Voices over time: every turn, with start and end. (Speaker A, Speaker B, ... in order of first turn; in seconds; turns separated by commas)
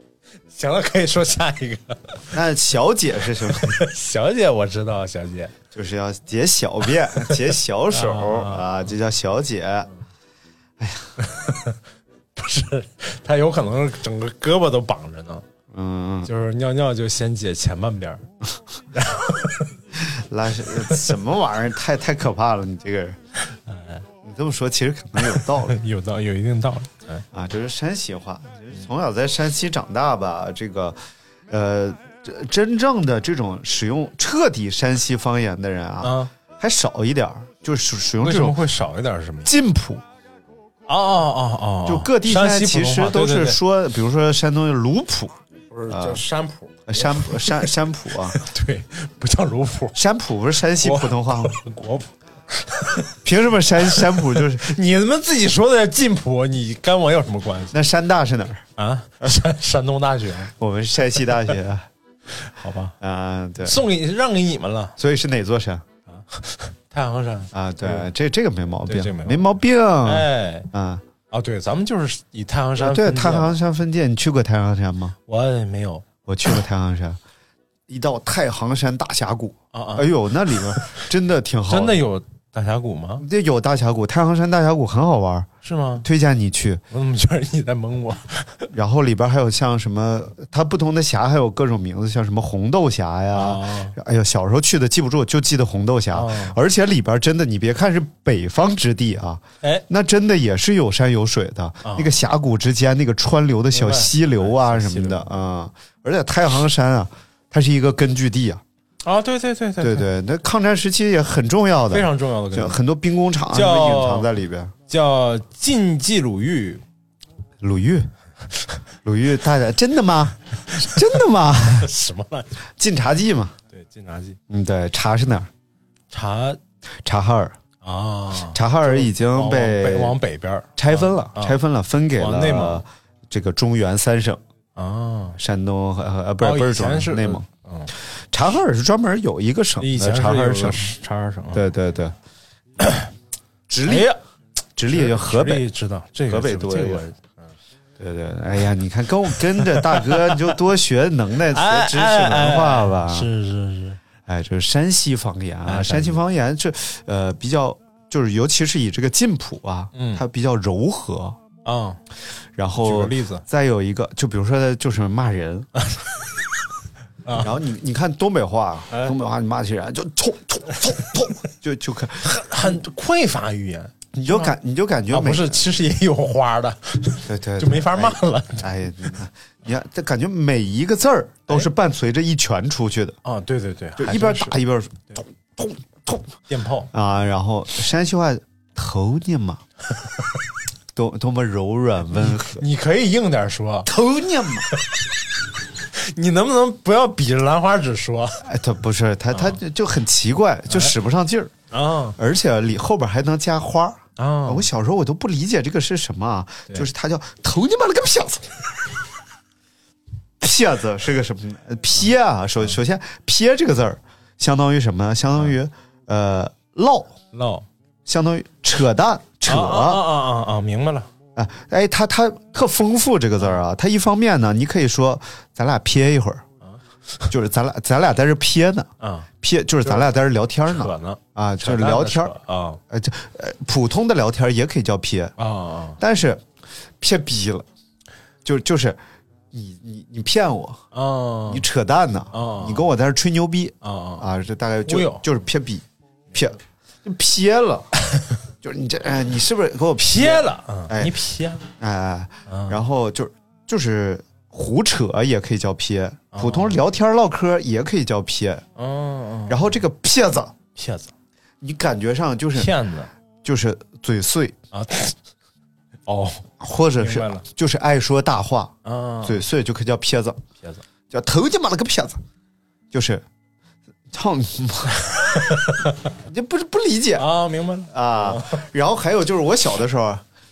Speaker A: 0.5-2.2, Speaker B: 2.3-3.8, Speaker A: 3.5-5.5, Speaker B: 5.7-9.9, Speaker A: 7.9-8.6, Speaker B: 10.8-11.1, Speaker A: 11.2-11.8, Speaker A: 12.3-15.4, Speaker B: 15.7-16.3, Speaker A: 16.2-18.2, Speaker A: 18.9-19.7, Speaker B: 20.0-23.2, Speaker A: 23.5-24.0, Speaker B: 24.2-25.8, Speaker A: 25.2-27.2, Speaker B: 27.3-31.0, Speaker B: 31.5-38.6, Speaker A: 36.0-36.3, Speaker A: 38.2-39.5, Speaker B: 39.4-40.0, Speaker A: 40.9-43.6, Speaker B: 41.8-45.4, Speaker A: 45.7-47.7, Speaker B: 45.9-46.2, Speaker B: 46.9-48.4, Speaker A: 48.2-50.0, Speaker B: 49.9-51.6, Speaker A: 50.8-53.1, Speaker B: 53.2-54.7, Speaker A: 53.9-57.7, Speaker B: 57.7-58.6, Speaker A: 58.8-60.5, Speaker B: 60.6-61.9, Speaker A: 62.4-62.9, Speaker B: 63.0-63.8, Speaker A: 63.6-65.0, Speaker B: 65.0-65.8, Speaker A: 66.1-68.1, Speaker B: 67.5-71.0, Speaker A: 68.8-69.5, Speaker A: 70.0-70.7, Speaker A: 71.3-73.6, Speaker B: 72.8-75.2, Speaker A: 75.3-76.0, Speaker B: 76.2-77.2, Speaker B: 77.9-82.0, Speaker A: 79.7-80.1, Speaker A: 81.7-83.2, Speaker B: 83.2-86.8, Speaker A: 85.6-86.0, Speaker A: 86.9-88.6, Speaker B: 88.7-108.6, Speaker A: 93.3-94.0, Speaker A: 96.1-96.5, Speaker A: 101.8-102.1, Speaker A: 103.7-105.3, Speaker A: 109.0-110.0, Speaker B: 109.8-114.7, Speaker A: 111.9-112.8, Speaker A: 113.5-114.3, Speaker A: 114.9-116.8, Speaker B: 117.6-118.1, Speaker B: 119.0-121.9, Speaker A: 121.7-122.5, Speaker B: 122.8-123.6, Speaker A: 123.7-124.4, Speaker B: 124.5-125.5, Speaker A: 126.1-126.6, Speaker B: 127.0-127.5, Speaker A: 127.8-131.6, Speaker B: 128.5-130.2, Speaker B: 130.8-134.4, Speaker A: 132.2-132.8, Speaker A: 134.8-135.4, Speaker B: 135.4-137.4, Speaker A: 136.4-137.9, Speaker B: 138.3-140.9, Speaker A: 139.8-141.6, Speaker B: 141.5-142.2, Speaker A: 142.8-143.1, Speaker B: 143.7-144.1, Speaker A: 143.8-144.2, Speaker B: 144.8-145.7, Speaker A: 144.9-147.5, Speaker B: 146.3-147.0, Speaker B: 148.0-153.3, Speaker A: 149.6-150.5, Speaker A: 151.5-154.0, Speaker B: 154.2-161.4, Speaker A: 155.7-156.2, Speaker A: 159.9-160.2, Speaker A: 161.6-162.0, Speaker B: 162.6-165.7, Speaker A: 162.8-163.4, Speaker A: 167.2-167.5, Speaker B: 167.4-172.8, Speaker A: 172.2-174.5, Speaker B: 174.1-175.6, Speaker A: 175.1-178.7, Speaker B: 177.2-183.2, Speaker A: 183.2-184.6, Speaker B: 184.0-186.3, Speaker A: 186.5-186.9, Speaker B: 186.9-189.6, Speaker B: 190.9-192.6, Speaker A: 192.1-193.9, Speaker B: 193.8-194.7, Speaker A: 196.0-198.4, Speaker B: 198.4-201.5, Speaker A: 199.3-199.6, Speaker A: 201.7-202.2, Speaker B: 202.2-208.4, Speaker A: 204.2-204.7, Speaker B: 210.4-217.2, Speaker A: 217.3-217.7, Speaker B: 218.1-220.0, Speaker A: 219.4-221.1, Speaker B: 221.3-226.4, Speaker B: 227.3-228.9, Speaker A: 229.0-229.3, Speaker B: 229.4-232.3, Speaker A: 229.8-232.8, Speaker B: 232.9-235.3, Speaker A: 235.4-236.0, Speaker B: 236.0-236.4, Speaker B: 237.0-237.7, Speaker B: 238.4-239.0, Speaker B: 239.5-240.8, Speaker A: 240.9-241.6, Speaker B: 241.5-247.9, Speaker A: 242.3-242.9, Speaker A: 243.8-244.2, Speaker A: 244.8-245.2, Speaker B: 248.6-251.1, Speaker A: 250.0-251.6, Speaker B: 251.8-258.6, Speaker A: 252.5-252.8, Speaker A: 256.3-256.8, Speaker A: 258.8-259.6, Speaker B: 259.5-260.5, Speaker A: 260.8-261.1, Speaker B: 261.6-262.7, Speaker A: 262.5-263.1, Speaker B: 263.4-264.6, Speaker A: 264.7-265.1, Speaker A: 266.1-266.4, Speaker B: 266.6-270.4, Speaker A: 267.0-267.4, Speaker A: 268.8-269.4, Speaker B: 271.1-272.2, Speaker B: 272.9-273.2, Speaker B: 274.1-275.1, Speaker A: 275.2-275.9, Speaker B: 276.2-277.3, Speaker A: 277.1-278.6, Speaker B: 277.9-280.2